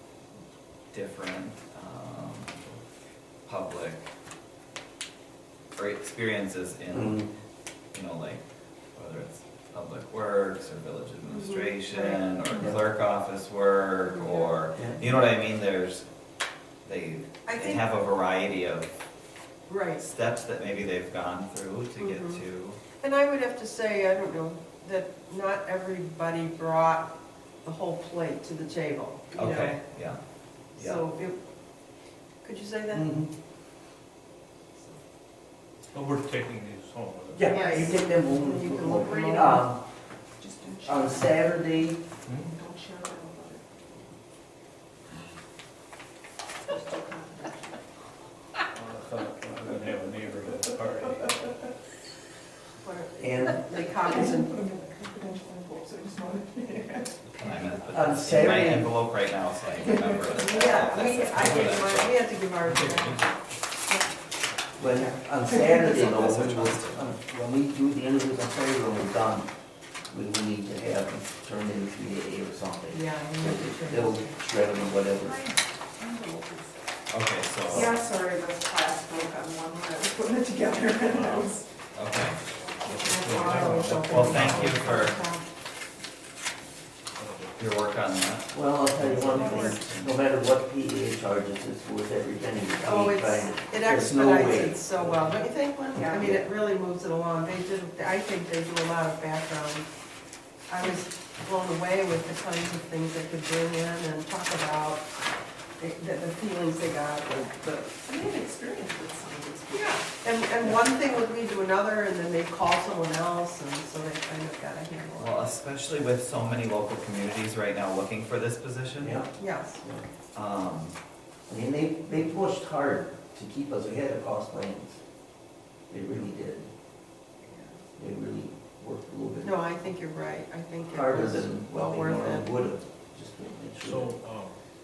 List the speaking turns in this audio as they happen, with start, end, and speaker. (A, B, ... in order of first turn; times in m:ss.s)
0:00.9-0:02.8 A
0:03.4-0:04.1 A
0:05.8-0:07.3 A
0:06.9-0:07.3 B
0:07.9-0:08.4 A
0:08.9-0:16.0 A
0:11.3-0:12.3 C
0:14.1-0:14.9 C
0:14.7-0:15.0 B
0:16.8-0:18.9 A
0:17.4-0:17.8 C
0:19.7-0:20.0 C
0:20.0-0:22.8 A
0:22.0-0:22.4 C
0:23.0-0:30.1 C
0:29.3-0:30.2 A
0:30.7-0:31.4 C
0:30.7-0:31.0 A
0:32.4-0:33.1 C
0:32.9-0:33.3 B
0:35.9-0:37.5 D
0:37.3-0:39.8 B
0:37.5-0:39.7 C
0:40.4-0:41.6 E
0:40.8-0:42.0 B
0:42.2-0:42.5 D
0:42.4-0:43.8 E
0:46.7-0:47.8 E
0:48.7-0:51.5 D
0:52.8-0:54.6 C
0:53.2-0:53.6 B
0:54.0-0:57.8 E
0:57.3-1:02.2 A
0:57.9-0:58.9 B
0:59.9-1:00.4 E
1:00.3-1:04.2 C
1:01.3-1:03.6 D
1:04.8-1:09.5 B
1:04.8-1:05.1 C
1:05.8-1:07.1 A
1:10.1-1:15.4 B
1:12.9-1:14.4 C
1:15.2-1:16.7 E
1:17.1-1:17.9 A
1:17.7-1:21.7 E
1:21.1-1:21.5 D
1:21.9-1:22.4 A
1:22.6-1:23.6 E
1:22.8-1:25.1 D
1:23.0-1:25.5 C
1:24.0-1:25.2 A
1:27.1-1:27.8 D
1:27.6-1:30.2 A
1:28.5-1:34.8 B
1:29.2-1:29.8 C
1:32.8-1:39.9 C
1:35.0-1:35.3 D
1:36.2-1:36.4 B
1:40.7-1:45.1 C
1:45.8-1:47.8 C
1:47.7-1:50.2 E
1:49.7-1:55.6 C
1:55.2-1:59.2 A
1:59.0-2:00.0 B
1:59.4-1:59.8 C
2:00.3-2:01.0 A
2:01.5-2:05.0 B
2:05.9-2:06.7 B
2:07.5-2:07.7 C
2:08.0-2:09.6 B
2:09.4-2:12.5 C
2:10.9-2:14.1 B
2:13.8-2:14.6 D